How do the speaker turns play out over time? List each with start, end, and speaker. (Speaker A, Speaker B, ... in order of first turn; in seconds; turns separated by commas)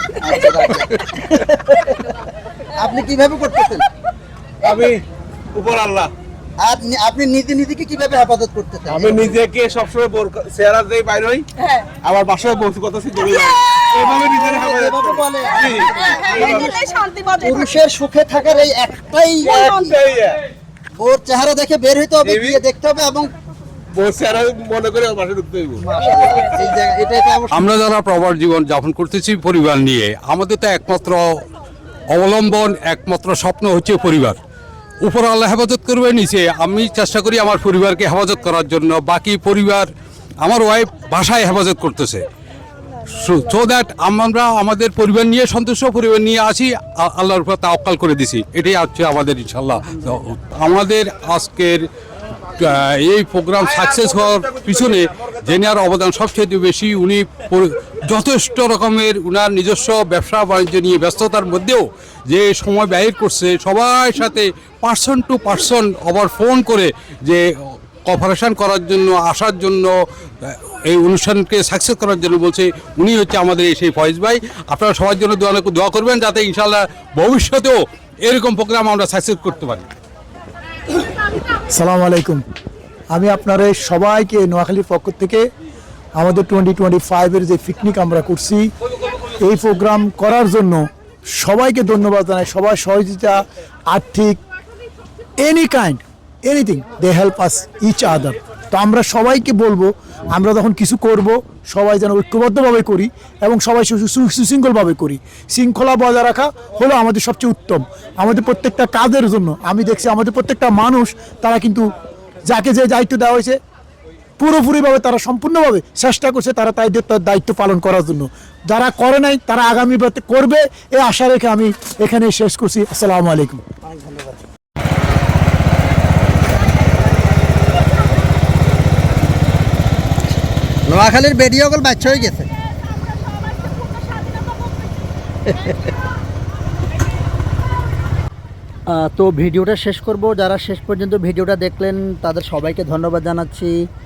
Speaker A: 0.2-1.9, Speaker A: 2.8-3.9, Speaker B: 4.6-6.1, Speaker A: 6.6-9.3, Speaker B: 8.9-11.5, Speaker C: 11.6-11.9, Speaker B: 12.0-16.7, Speaker C: 13.4-14.0, Speaker A: 14.1-16.7, Speaker C: 15.5-17.7, Speaker A: 17.4-20.0, Speaker C: 19.4-19.9, Speaker B: 19.8-20.4, Speaker A: 20.9-23.3, Speaker B: 22.2-22.6, Speaker B: 23.9-25.9, Speaker A: 25.8-27.7, Speaker D: 27.5-31.4, Speaker D: 32.1-34.4, Speaker D: 35.0-39.9, Speaker D: 40.4-42.2, Speaker D: 43.1-51.8, Speaker D: 52.6-67.4, Speaker D: 68.0-79.9, Speaker E: 81.8-82.4, Speaker E: 83.1-85.4, Speaker E: 86.2-88.7, Speaker E: 89.4-90.9, Speaker E: 91.4-94.4, Speaker E: 95.4-111.9, Speaker E: 112.5-113.6, Speaker E: 114.4-123.6, Speaker A: 123.8-124.4, Speaker A: 130.9-132.5, Speaker A: 135.5-135.9, Speaker A: 138.9-143.8